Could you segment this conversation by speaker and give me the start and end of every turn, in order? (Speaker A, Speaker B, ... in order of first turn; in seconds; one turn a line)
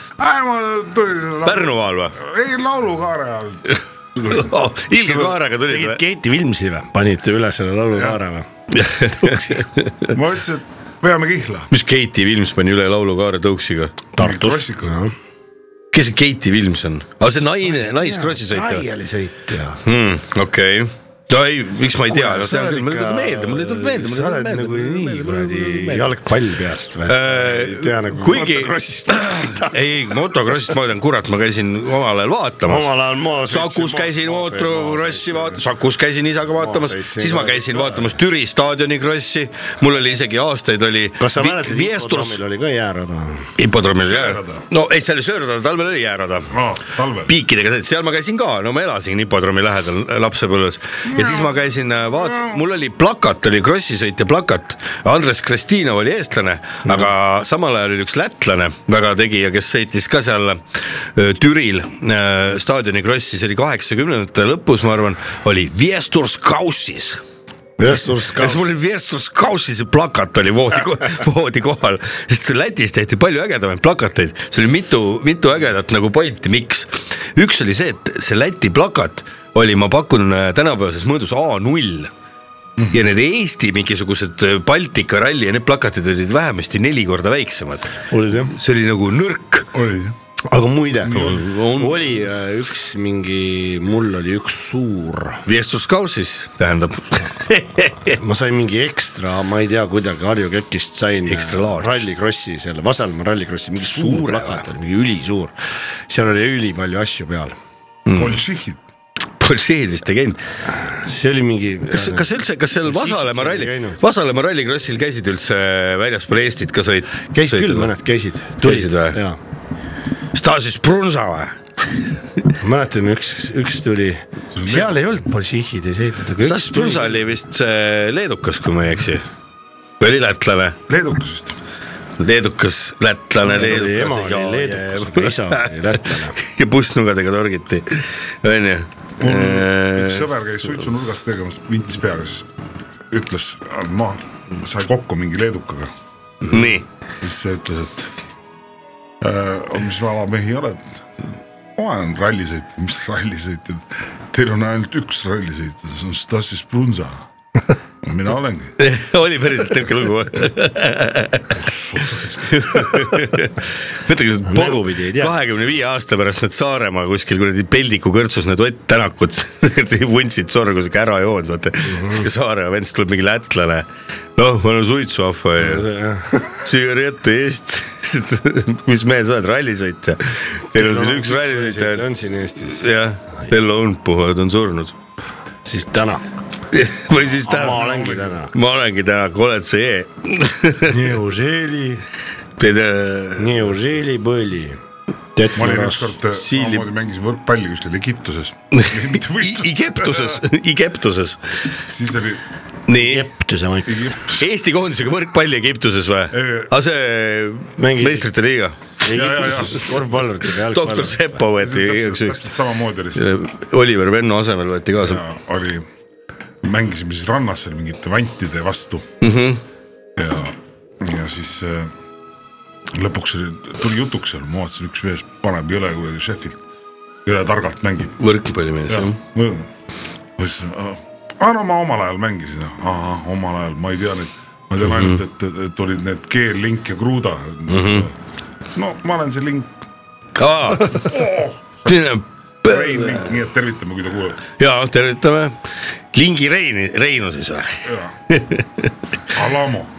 Speaker A: 0.2-4.5
Speaker B: 1.4-2.2
Speaker B: 4.3-6.0
Speaker C: 5.0-8.5
Speaker B: 8.7-10.2
Speaker C: 9.1-9.7
Speaker A: 10.1-11.7
Speaker B: 11.7-14.0
Speaker C: 14.1-15.1
Speaker A: 14.2-14.9
Speaker B: 15.9-18.9
Speaker C: 17.6-19.8
Speaker B: 19.9-26.1
Speaker C: 22.1-30.2
Speaker B: 27.1-32.9
Speaker C: 32.7-35.6
Speaker B: 33.4-42.4
Speaker C: 36.6-38.1
Speaker C: 41.2-43.5
Speaker B: 43.6-46.5
Speaker A: 44.0-44.6
Speaker A: 46.5-47.3
Speaker B: 47.3-67.2
Speaker A: 51.1-52.6
Speaker C: 67.8-68.7
Speaker B: 68.4-82.1
Speaker B: 82.9-89.7
Speaker C: 88.1-88.6
Speaker A: 89.7-90.2
Speaker C: 90.5-95.5
Speaker B: 91.1-92.0
Speaker A: 91.1-91.4
Speaker B: 95.5-98.2
Speaker C: 98.1-105.5
Speaker B: 101.3-102.0
Speaker B: 103.8-104.7
Speaker C: 106.1-107.6
Speaker B: 108.1-108.4
Speaker A: 108.1-108.8
Speaker B: 109.4-110.4
Speaker C: 110.8-112.3
Speaker B: 111.9-117.9
Speaker C: 112.8-114.0
Speaker C: 117.3-119.4
Speaker B: 118.6-119.2
Speaker B: 120.3-121.6
Speaker C: 122.6-127.2
Speaker A: 124.6-124.9
Speaker B: 126.4-129.2
Speaker B: 130.0-130.8
Speaker A: 130.9-131.6
Speaker B: 132.2-140.9
Speaker C: 133.4-136.4
Speaker A: 139.2-142.5
Speaker A: 143.1-145.9
Speaker B: 146.5-146.9
Speaker A: 147.2-148.1
Speaker A: 149.2-151.0
Speaker A: 151.8-157.3
Speaker A: 158.0-158.7
Speaker B: 158.8-161.6
Speaker B: 162.4-175.9
Speaker C: 164.4-165.4
Speaker C: 171.9-172.2
Speaker C: 175.6-176.6
Speaker B: 176.5-185.0
Speaker C: 180.7-182.9
Speaker C: 185.6-186.2
Speaker B: 186.7-187.9
Speaker C: 187.5-188.5
Speaker A: 187.6-188.3
Speaker B: 188.5-191.1
Speaker C: 190.8-192.0
Speaker B: 192.6-193.9
Speaker C: 193.4-194.8
Speaker C: 195.3-196.2
Speaker A: 195.6-200.4
Speaker B: 196.3-196.9
Speaker B: 198.7-201.4
Speaker A: 201.9-202.4
Speaker B: 202.9-203.3
Speaker C: 202.9-204.2
Speaker A: 203.9-204.4
Speaker B: 204.3-208.8
Speaker A: 206.3-206.7
Speaker C: 207.8-208.3
Speaker C: 209.0-211.4
Speaker A: 209.1-209.9
Speaker B: 210.6-212.4
Speaker A: 211.6-213.3
Speaker B: 213.1-215.2
Speaker A: 215.0-215.9
Speaker A: 216.6-219.1
Speaker B: 219.2-219.6
Speaker A: 220.2-221.9
Speaker A: 222.9-226.6
Speaker A: 227.3-228.2
Speaker B: 228.2-229.2
Speaker A: 228.9-229.7
Speaker A: 230.4-238.1
Speaker B: 234.8-235.2
Speaker B: 237.7-238.1
Speaker A: 238.8-239.7
Speaker B: 240.4-241.1
Speaker A: 240.9-241.9
Speaker B: 241.9-243.3
Speaker A: 242.6-244.4
Speaker B: 244.6-245.6
Speaker B: 246.1-248.9
Speaker A: 247.9-248.1
Speaker A: 249.3-249.9